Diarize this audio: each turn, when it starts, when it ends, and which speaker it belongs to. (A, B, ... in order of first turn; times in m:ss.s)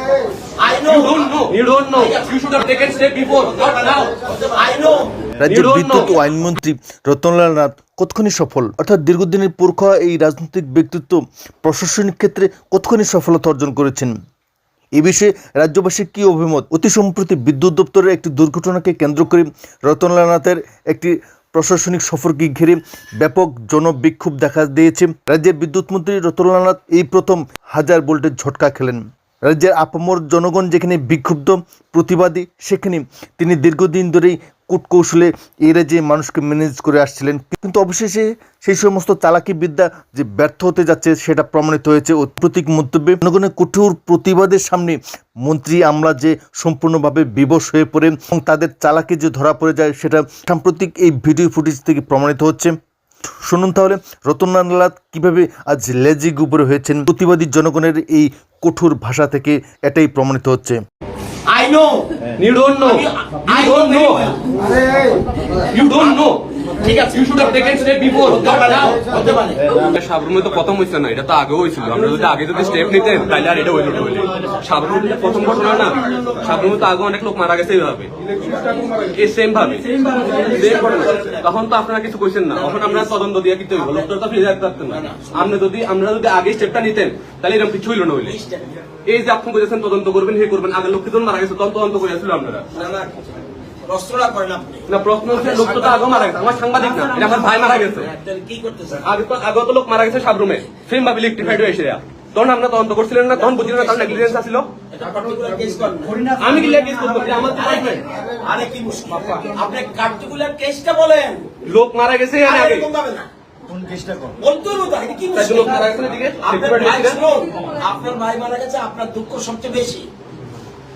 0:00.6-0:02.5 A
0:00.8-0:04.0 B
0:03.4-0:05.1 A
0:05.4-0:14.1 C
0:05.4-0:06.2 B
0:15.0-0:52.7 C
0:53.4-1:00.8 C
1:01.5-1:02.2 A
1:02.4-1:04.3 B
1:02.8-1:04.4 A
1:05.7-1:06.4 B
1:05.9-1:09.7 A
1:07.1-1:08.9 B
1:09.7-1:28.3 B
1:20.1-1:21.5 A
1:22.6-1:23.1 A
1:23.8-1:24.0 A
1:24.9-1:25.5 A
1:28.2-1:28.7 A
1:29.0-1:32.6 B
1:32.7-1:39.0 A
1:34.9-1:38.1 B
1:39.0-1:44.7 B
1:43.3-1:44.4 A
1:44.9-1:46.4 A
1:46.4-1:48.0 B
1:47.4-1:51.5 A
1:51.6-1:52.9 B
1:52.4-1:53.3 A
1:54.2-2:00.0 A
1:55.3-1:57.2 B